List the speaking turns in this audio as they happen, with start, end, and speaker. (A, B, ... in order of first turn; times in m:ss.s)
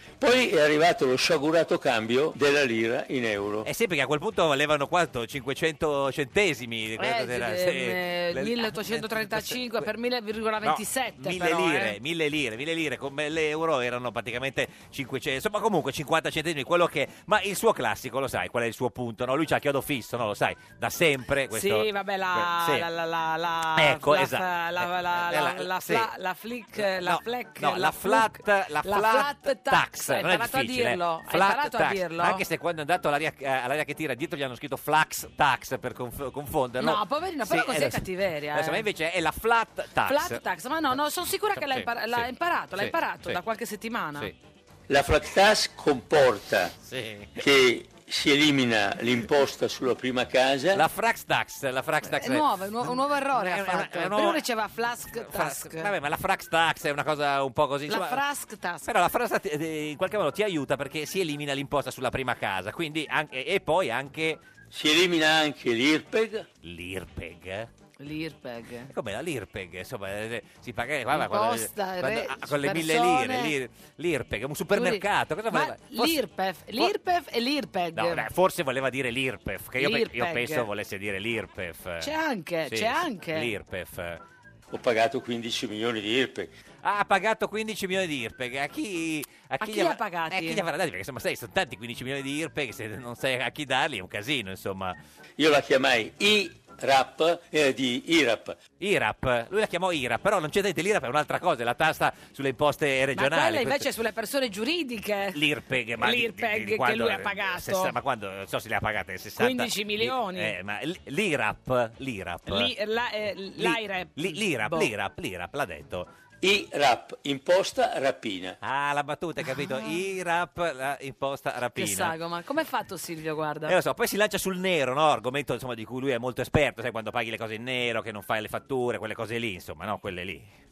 0:00.2-0:03.7 A
0:03.6-0:09.9 B
0:07.0-0:12.0 C
0:10.6-0:22.9 B
0:21.5-0:32.4 C
0:23.7-0:26.1 B
0:26.8-0:40.4 B
0:36.8-0:38.9 C
0:40.1-0:44.3 C
0:41.6-0:43.4 B
0:44.9-0:46.8 A
0:46.8-0:47.4 B
0:47.4-0:50.8 A
0:50.7-0:54.4 B
0:52.0-0:55.9 C
0:55.3-0:58.2 B
0:57.9-0:58.9 C
0:58.8-1:04.4 B
1:04.7-1:06.5 A
1:06.6-1:07.7 B
1:08.0-1:08.9 C
1:08.9-1:16.2 B
1:11.1-1:13.6 C
1:14.7-1:18.3 C
1:18.0-1:22.1 B
1:19.8-1:20.7 C
1:22.0-1:23.5 C
1:22.7-1:24.2 B
1:24.7-1:26.5 A
1:26.8-1:35.0 B
1:29.6-1:30.6 C
1:35.4-1:38.6 A
1:38.8-1:43.9 B
1:43.1-1:45.4 C
1:45.3-1:52.7 B
1:46.0-1:48.0 C
1:49.4-1:50.6 C
1:52.5-1:54.9 C
1:53.6-1:56.1 B
1:56.4-1:58.6 A
1:58.6-2:02.2 B
2:01.8-2:03.8 C
2:03.7-2:10.5 B